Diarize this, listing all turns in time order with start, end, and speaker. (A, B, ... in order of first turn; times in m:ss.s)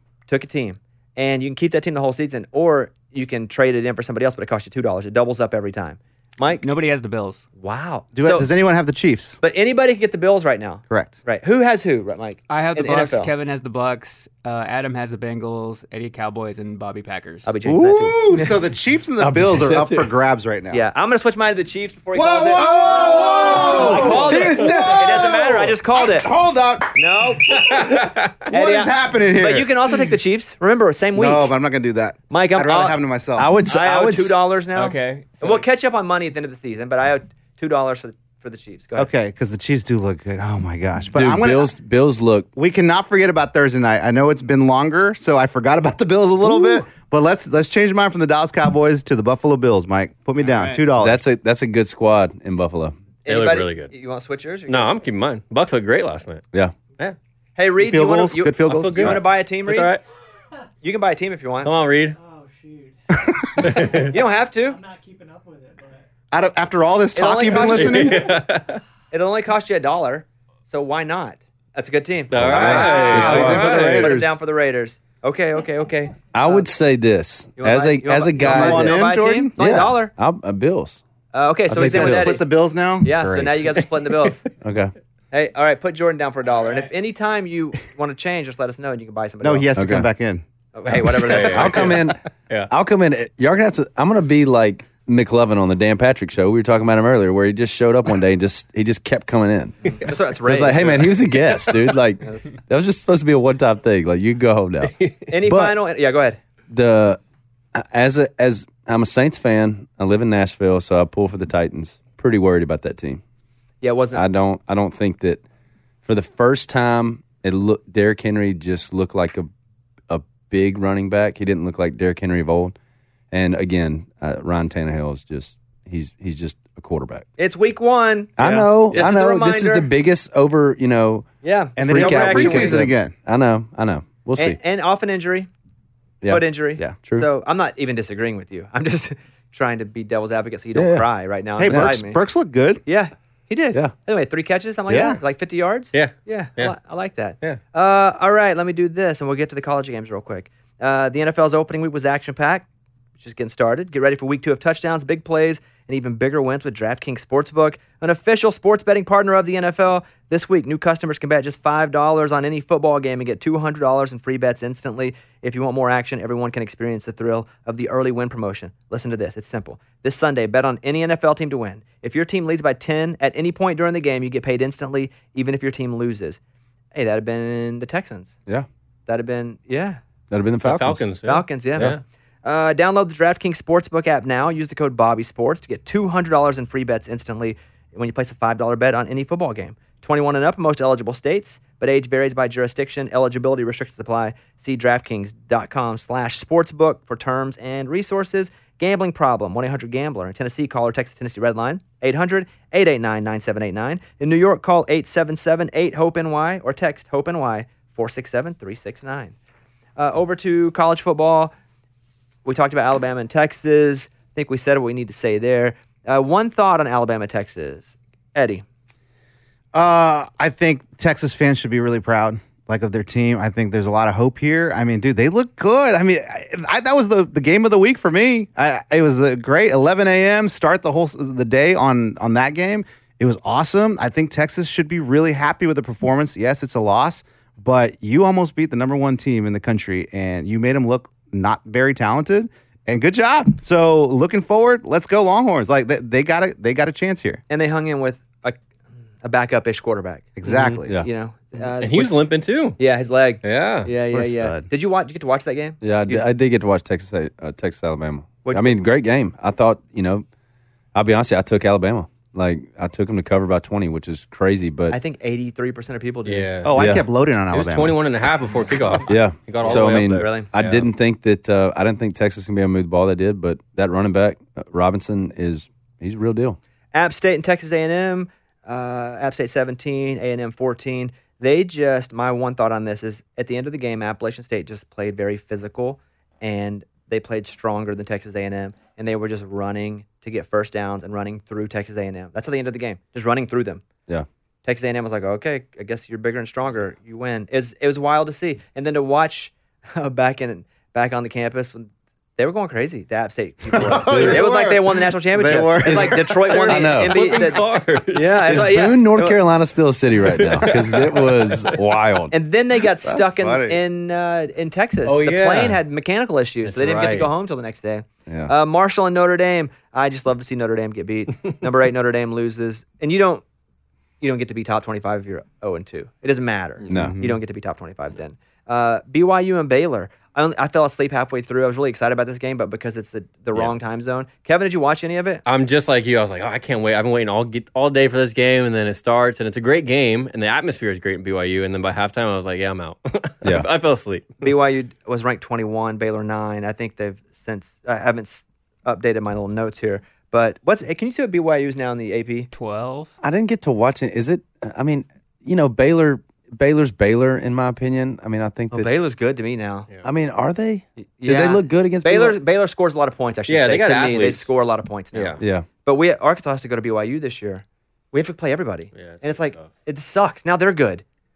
0:00.3-0:06.6 A
0:06.6-0:07.4 B
0:07.6-0:08.5 A
0:08.1-0:09.4 C
0:09.4-0:13.3 A
0:10.9-0:11.2 C
0:12.5-0:17.6 B
0:17.4-0:18.6 A
0:17.6-0:20.8 C
0:19.2-0:20.1 D
0:20.7-0:26.3 A
0:22.1-0:29.7 C
0:23.0-0:25.6 D
0:26.9-0:27.8 A
0:27.5-0:28.3 E
0:28.5-0:31.5 A
0:31.1-0:33.6 C
0:32.3-0:33.0 A
0:33.4-0:34.4 D
0:33.6-0:39.1 A
0:34.7-0:35.6 B
0:39.0-0:41.7 C
0:41.1-0:42.5 D
0:42.6-0:51.2 C
0:50.4-0:50.9 B
0:51.0-0:52.9 D
0:53.2-0:54.9 A
0:53.3-0:53.9 E
0:54.7-0:56.4 E
0:57.6-0:59.9 A
0:57.8-0:59.2 C
0:58.7-1:00.0 E
1:00.8-1:01.7 A
1:01.6-1:02.2 E
1:03.1-1:03.8 C
1:03.6-1:04.1 E
1:04.1-1:04.9 A
1:06.3-1:08.3 C
1:07.1-1:08.2 A
1:07.5-1:08.8 E
1:09.1-1:16.7 A
1:12.3-1:14.1 E
1:12.4-1:13.7 D
1:12.5-1:14.4 C
1:16.3-1:19.0 D
1:17.6-1:20.1 A
1:18.4-1:19.5 C
1:19.6-1:21.0 D
1:21.3-1:22.4 A
1:21.7-1:22.4 D
1:21.7-1:23.8 C
1:23.0-1:24.4 A
1:24.6-1:24.9 D
1:25.3-1:29.7 A
1:29.4-1:31.1 C
1:29.8-1:30.1 D
1:30.7-1:31.9 A
1:31.2-1:32.7 E
1:31.5-1:32.2 D
1:32.7-1:39.8 D
1:39.8-1:41.2 A
1:40.4-1:45.8 D
1:45.3-1:46.4 A
1:46.7-1:47.2 D
1:47.7-1:53.2 D
1:53.8-1:54.2 A
1:54.1-1:55.4 D
1:56.0-1:59.5 D
2:00.1-2:02.7 D
2:03.3-2:07.3 D
2:07.4-2:09.9 A
2:08.4-2:11.3 D
2:11.4-2:12.8 A
2:11.8-2:13.1 C
2:11.8-2:14.6 D
2:14.4-2:15.5 A
2:16.2-2:17.3 D
2:16.3-2:22.2 A
2:20.7-2:21.1 D
2:21.6-2:22.8 C
2:21.6-2:21.9 D
2:22.8-2:32.7 A
2:24.9-2:25.2 C
2:25.9-2:26.7 E
2:33.2-2:56.4 A
2:56.9-2:58.4 A
2:59.1-3:00.0 A
3:00.3-3:01.0 D
3:00.6-3:02.0 E
3:01.2-3:29.3 A
3:30.0-3:31.5 A
3:32.4-3:38.6 A
3:39.7-4:07.4 C
4:07.5-4:08.6 A
4:09.2-4:12.2 A
4:10.4-4:10.9 C
4:10.5-4:10.8 E
4:11.8-4:12.8 E
4:12.8-4:16.2 A
4:13.4-4:13.9 E
4:14.1-4:14.7 C
4:15.8-4:20.2 D
4:18.4-4:18.8 A
4:20.9-4:25.0 D
4:24.9-4:26.5 A
4:26.2-4:26.7 E
4:26.6-4:28.0 C
4:26.8-4:27.0 D
4:27.5-4:30.9 E
4:29.1-4:36.6 D
4:29.6-4:30.5 A
4:36.9-4:53.8 A
4:54.6-5:07.6 A
5:03.7-5:06.4 C
5:04.0-5:04.4 D
5:05.8-5:07.2 D
5:06.5-5:08.7 E
5:08.1-5:09.4 A
5:08.4-5:12.3 D
5:10.2-5:11.8 E
5:12.3-5:23.4 A
5:13.1-5:13.8 C
5:15.0-5:15.8 E
5:16.6-5:17.3 E
5:18.3-5:18.5 D
5:24.2-5:35.4 A
5:26.9-5:27.2 D
5:26.9-5:27.4 C
5:35.4-5:44.4 E
5:44.4-5:52.5 A
5:52.5-5:53.1 B
5:53.2-5:58.9 D
5:58.7-5:59.9 A
6:00.0-6:02.4 D
6:01.0-6:11.0 A
6:03.5-6:04.5 E
6:05.1-6:05.4 E
6:05.4-6:05.7 D
6:08.9-6:09.7 E